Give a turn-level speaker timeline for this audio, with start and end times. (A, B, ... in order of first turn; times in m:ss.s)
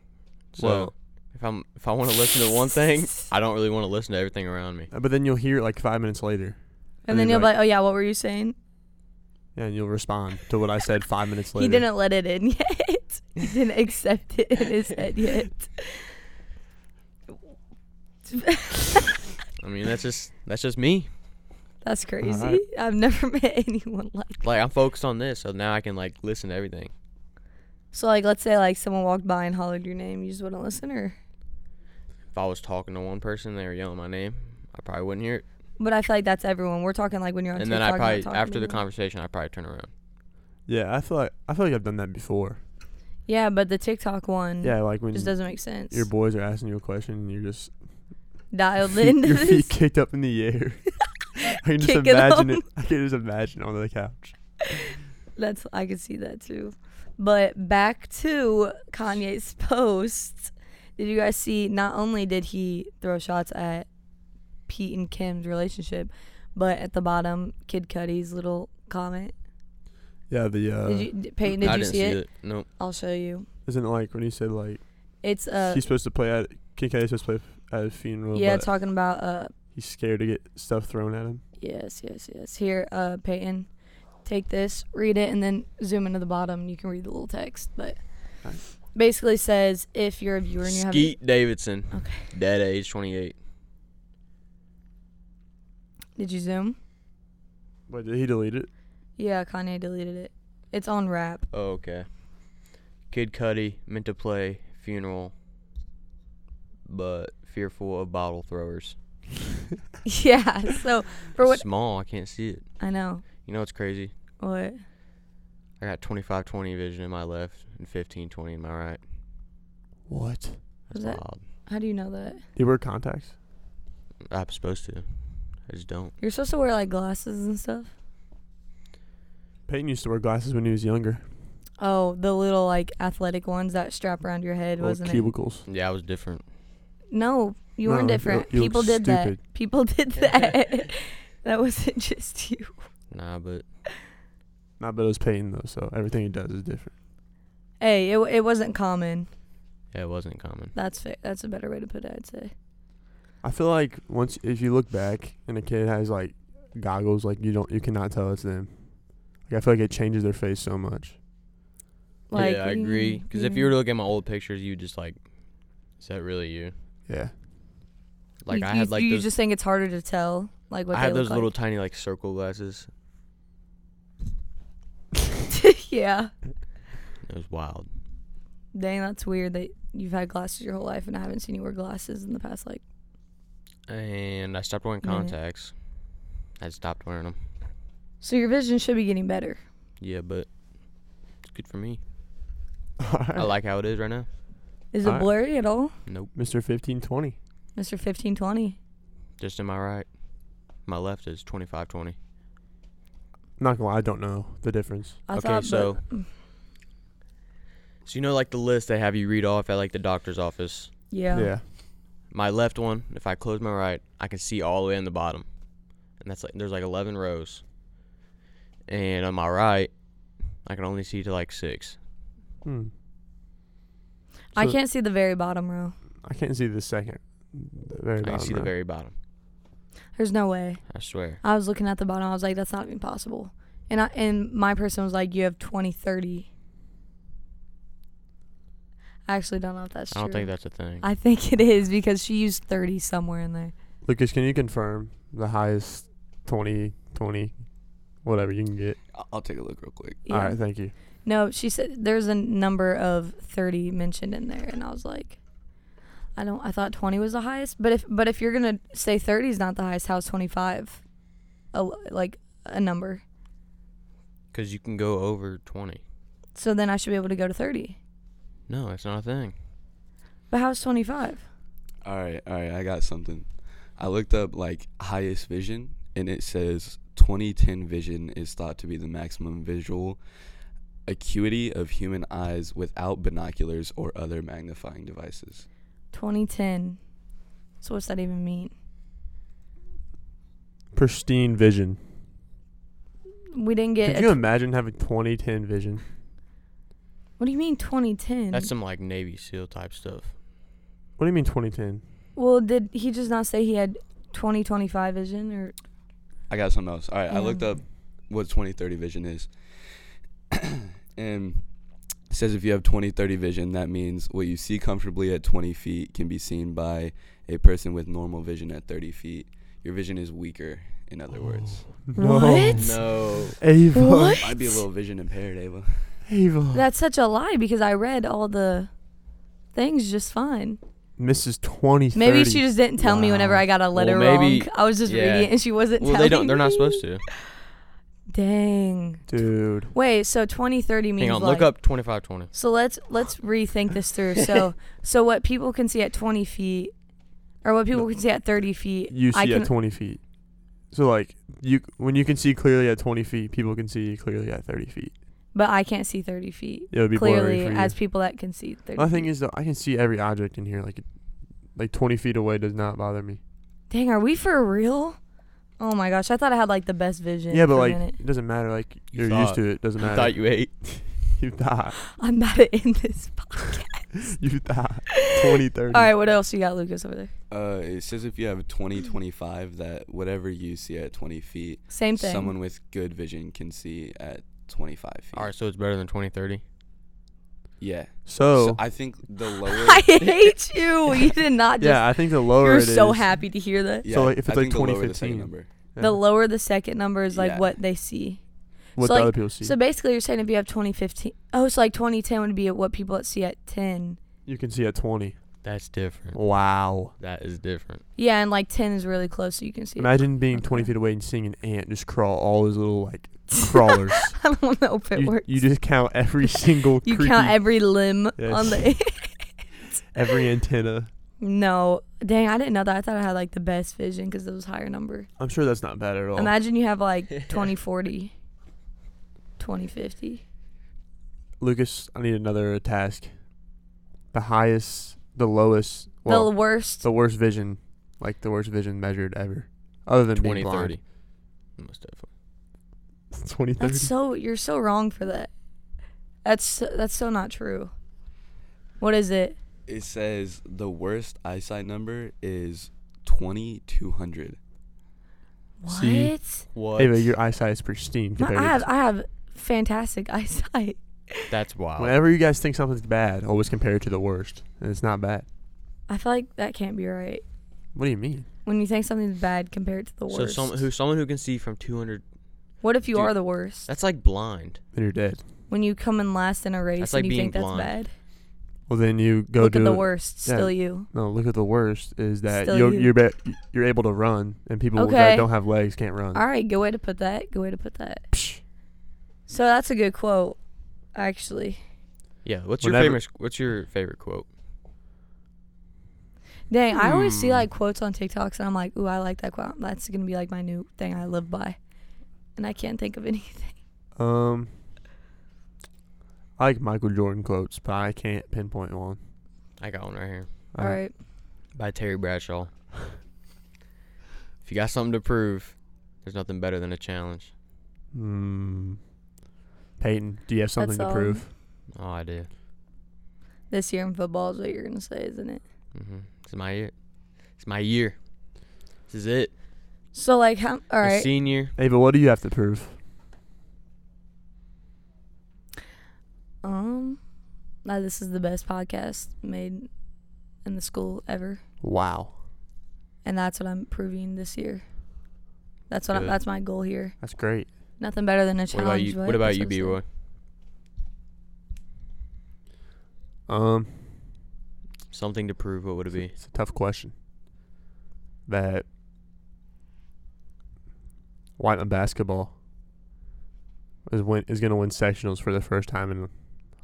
0:00.5-0:04.9 A
0:00.6-0:00.9 B
0:04.9-0:07.5 B
0:07.0-0:08.6 C
0:09.6-0:11.9 B
0:11.6-0:15.9 C
0:18.3-0:19.0 C
0:19.6-0:21.1 A
0:21.8-0:24.4 C
0:22.2-0:22.6 B
0:24.4-0:26.9 A
0:27.9-0:31.2 C
0:32.3-0:35.4 A
0:35.8-0:38.8 C
0:37.6-0:39.9 A
0:40.7-0:42.6 B
0:43.3-0:46.1 C
0:44.6-0:47.8 B
0:48.5-0:49.7 C
0:48.9-0:54.4 B
0:51.8-0:52.6 C
0:55.4-1:03.9 C
1:04.7-1:09.3 C
1:10.3-1:11.9 B
1:10.8-1:13.5 C
1:11.6-1:12.7 A
1:13.7-1:14.8 B
1:15.2-1:15.8 C
1:15.6-1:18.7 B
1:18.3-1:19.5 C
1:19.8-1:21.4 B
1:21.6-1:23.7 C
1:24.2-1:28.0 C
1:28.9-1:31.2 C
1:30.6-1:33.4 A
1:31.9-1:32.3 C
1:36.2-1:36.8 C
1:37.9-1:38.7 B
1:39.2-1:41.5 C
1:41.5-1:45.3 A
1:46.8-1:49.0 A
1:50.1-1:51.6 C
1:51.4-1:54.1 A
1:52.8-1:53.3 C
1:54.4-1:54.8 C
1:55.8-1:59.0 A
2:00.1-2:00.6 B
2:00.9-2:01.4 A
2:00.9-2:02.4 C
2:02.6-2:03.4 B
2:04.3-2:06.2 A
2:06.2-2:07.9 C
2:09.7-2:11.3 B
2:11.8-2:15.3 C
2:14.8-2:15.6 B
2:15.7-2:16.4 A
2:17.1-2:22.8 C
2:17.9-2:19.4 B
2:23.1-2:23.6 A
2:24.8-2:26.9 B
2:27.8-2:29.3 C
2:29.9-2:30.7 A
2:30.8-2:32.5 C
2:33.4-2:41.2 B
2:42.3-2:43.7 C
2:42.3-2:45.3 A
2:45.9-2:46.7 A
2:47.1-2:47.3 B
2:48.4-2:49.3 A
2:48.5-2:51.5 C
2:50.9-2:52.9 A
2:55.5-2:56.3 C
2:57.2-2:57.9 A
2:58.7-3:02.8 C
3:03.9-3:05.8 A
3:05.0-3:05.3 C
3:06.6-3:07.4 A
3:08.2-3:09.6 C
3:10.0-3:10.5 A
3:11.4-3:12.0 A
3:13.0-3:13.5 B
3:13.4-3:14.3 A
3:14.9-3:16.0 C
3:16.1-3:16.3 A
3:16.4-3:17.4 B
3:17.8-3:18.8 C
3:19.4-3:20.1 A
3:20.8-3:22.2 A
3:23.6-3:25.2 B
3:25.3-3:26.3 C
3:25.3-3:26.0 A
3:28.0-3:30.9 A
3:31.1-3:31.5 C
3:31.3-3:31.6 B
3:32.3-3:35.5 A
3:36.2-3:37.6 A
3:38.9-3:39.9 A
3:40.6-3:42.0 A
3:42.6-3:42.9 B
3:44.5-3:46.0 C
3:46.2-3:48.7 B
3:48.2-3:49.1 A
3:50.2-3:56.5 C
3:50.9-3:51.4 A
3:59.3-4:03.7 C
4:00.1-4:01.1 A
4:04.0-4:07.6 B
4:08.2-4:09.0 B
4:09.1-4:10.2 D
4:10.3-4:10.6 C
4:10.3-4:10.9 B
4:11.2-4:15.4 C
4:16.4-4:21.0 C
4:21.7-4:23.2 C
4:24.5-4:26.0 A
4:26.6-4:28.0 C
4:28.7-4:29.6 A
4:30.5-4:31.5 C
4:32.0-4:40.2 D
4:41.1-4:45.7 D
4:46.1-4:47.0 C
4:47.8-4:48.7 C
4:50.9-4:52.0 B
4:53.5-4:54.4 C
4:54.0-4:56.0 B
4:57.4-4:58.7 C
4:58.5-5:00.3 A
5:01.2-5:02.0 B
5:02.4-5:05.8 C
5:06.5-5:09.5 D
5:07.3-5:07.7 C
5:11.2-5:11.7 D
5:12.3-5:21.9 D
5:22.0-5:24.4 B
5:22.2-5:22.9 C
5:22.8-5:23.6 A
5:23.9-5:24.8 C
5:24.4-5:26.2 D
5:26.3-5:26.8 B
5:26.7-5:28.9 C
5:29.7-5:30.8 C
5:31.2-5:33.7 B
5:32.2-5:37.0 C
5:33.9-5:37.3 A
5:38.3-5:39.3 C
5:39.3-5:39.9 B
5:39.9-5:41.7 C
5:41.2-5:42.5 A
5:42.5-5:46.9 C
5:47.6-5:49.7 C
5:49.1-5:50.2 B
5:50.9-5:55.1 B
5:55.5-5:59.3 C
5:56.9-5:58.0 B
5:59.0-6:01.0 B
6:01.8-6:03.4 B
6:03.9-6:05.2 C
6:05.8-6:08.2 C
6:07.5-6:12.0 B
6:09.1-6:10.7 A
6:12.2-6:14.3 C
6:14.3-6:16.1 B
6:15.1-6:15.4 C
6:15.9-6:17.3 C
6:17.5-6:25.5 D
6:21.9-6:22.6 C
6:25.3-6:26.6 A
6:27.8-6:30.0 D
6:28.3-6:28.8 B
6:29.7-6:34.1 C
6:31.8-6:33.3 B
6:34.0-6:35.7 D
6:34.1-6:36.2 B
6:36.0-6:38.4 C
6:37.3-6:37.7 D
6:39.0-6:39.8 B
6:39.0-6:44.2 C
6:44.5-6:45.4 B
6:45.6-6:46.4 A
6:46.3-6:47.1 B
6:47.2-6:48.0 A
6:48.2-6:50.9 C
6:50.0-6:54.4 B
6:54.1-6:55.7 C
6:55.2-6:57.6 B
6:57.0-7:00.0 C
6:58.4-6:58.9 B
7:00.1-7:01.1 B
7:01.4-7:05.3 C
7:05.4-7:06.5 B
7:06.4-7:08.3 C
7:09.6-7:10.4 C
7:11.6-7:13.3 B
7:14.3-7:21.0 B
7:16.3-7:17.1 C
7:20.3-7:21.0 A
7:21.8-7:22.3 A
7:23.3-7:24.1 B
7:23.8-7:25.5 C
7:26.4-7:27.9 C
7:29.0-7:29.6 C
7:29.9-7:34.6 D
7:35.8-7:36.6 C
7:35.9-7:36.4 B
7:36.7-7:37.4 A
7:37.0-7:38.9 B
7:38.4-7:41.5 C
7:41.5-7:42.2 A
7:42.0-7:45.5 B
7:46.1-7:47.4 C
7:48.0-7:48.5 B
7:48.6-7:50.9 C
7:50.3-7:52.2 A
7:52.8-7:53.9 C
7:53.1-7:54.8 A
7:54.9-7:55.4 B
7:55.7-7:58.1 C
7:57.0-7:58.0 A
7:58.9-8:06.4 B
7:59.6-8:01.1 C
8:02.5-8:03.1 C
8:05.0-8:05.5 C
8:06.3-8:08.3 C
8:08.3-8:08.6 B
8:09.5-8:10.6 C
8:11.1-8:11.8 C
8:12.4-8:14.5 A
8:12.8-8:13.2 B
8:16.7-8:21.8 C
8:17.0-8:17.7 B
8:22.6-8:23.8 C
8:24.2-8:24.8 B
8:26.6-8:29.2 B
8:29.8-8:30.5 A
8:30.7-8:31.0 B
8:30.8-8:31.1 C
8:31.7-8:32.7 A
8:34.6-8:37.5 A
8:38.1-8:39.0 B
8:40.0-8:41.5 B
8:40.8-8:41.4 C
8:42.0-8:42.5 A
8:43.7-8:45.6 C
8:45.9-8:48.2 A
8:49.1-8:49.5 A
8:50.1-8:51.3 C
8:51.0-8:51.7 A
8:51.8-8:53.0 B
8:56.6-8:57.2 C
8:57.8-8:59.9 C
9:00.6-9:01.6 C
9:01.8-9:02.4 B
9:03.2-9:04.8 C
9:05.9-9:07.2 C
9:06.1-9:06.4 A
9:07.2-9:07.7 B
9:08.0-9:10.0 C
9:08.7-9:10.0 A
9:13.5-9:14.3 B
9:15.1-9:16.4 A
9:16.1-9:17.1 B
9:18.5-9:18.9 B
9:21.6-9:22.5 B
9:24.1-9:26.3 B